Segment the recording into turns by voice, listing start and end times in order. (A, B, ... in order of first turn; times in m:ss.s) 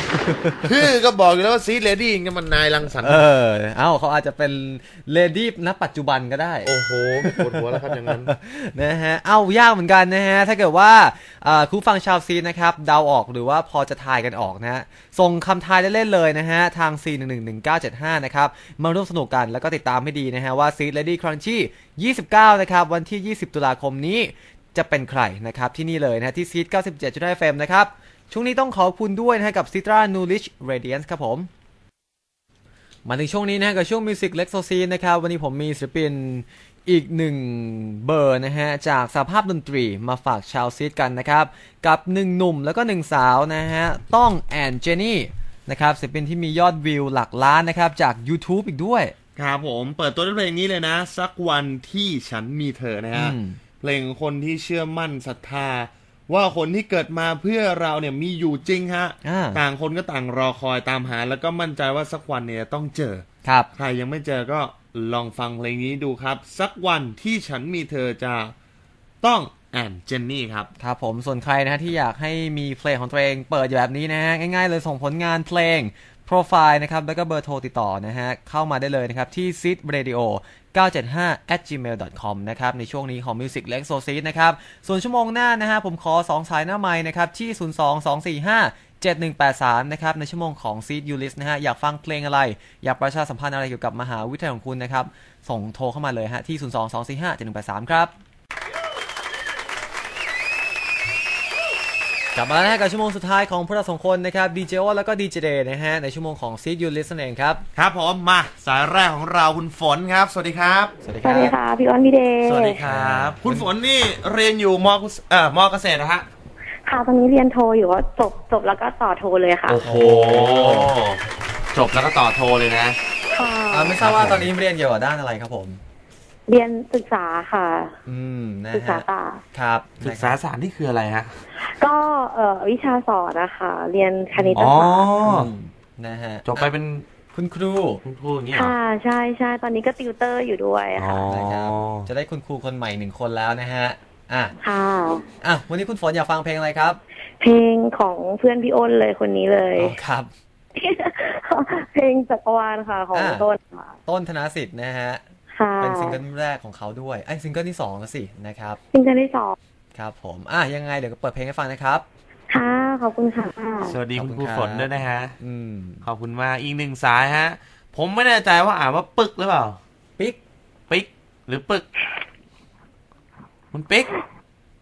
0:00.1-0:00.7 A
0:00.6-0:03.2 B
0:03.0-0:06.7 A
0:06.6-0:08.3 B
0:07.2-0:31.5 A
0:33.1-0:49.2 A
0:49.4-1:08.5 B
0:53.2-0:53.6 A
0:59.2-0:59.6 A
1:09.2-1:10.7 B
1:10.8-1:38.1 A
1:42.4-1:47.6 A
1:47.8-1:51.0 B
1:51.0-1:51.6 A
1:51.2-1:52.8 C
1:52.4-1:56.3 B
1:52.8-1:53.7 A
1:56.9-1:59.8 C
1:59.7-2:01.2 B
1:59.8-2:00.9 A
2:01.7-2:03.0 B
2:03.3-2:04.0 C
2:03.7-2:05.8 A
2:04.0-2:04.5 B
2:06.5-2:07.9 C
2:08.1-2:10.4 A
2:08.7-2:09.4 C
2:10.0-2:11.4 B
2:11.6-2:15.1 C
2:14.4-2:14.7 A
2:14.5-2:15.5 B
2:15.2-2:16.7 A
2:16.5-2:17.1 B
2:17.3-2:18.0 A
2:18.0-2:18.7 B
2:18.5-2:21.2 C
2:21.0-2:22.1 B
2:21.3-2:24.6 A
2:24.6-2:25.2 C
2:25.4-2:27.0 A
2:27.4-2:30.0 C
2:29.8-2:30.3 A
2:30.8-2:33.9 C
2:33.1-2:33.5 A
2:34.1-2:35.2 A
2:35.5-2:36.2 C
2:35.8-2:38.8 A
2:38.9-2:39.6 C
2:40.0-2:42.0 A
2:42.5-2:44.0 C
2:43.9-2:45.4 B
2:44.2-2:44.9 A
2:45.4-2:46.0 A
2:46.0-2:49.8 B
2:50.9-2:51.9 B
2:53.7-2:54.1 B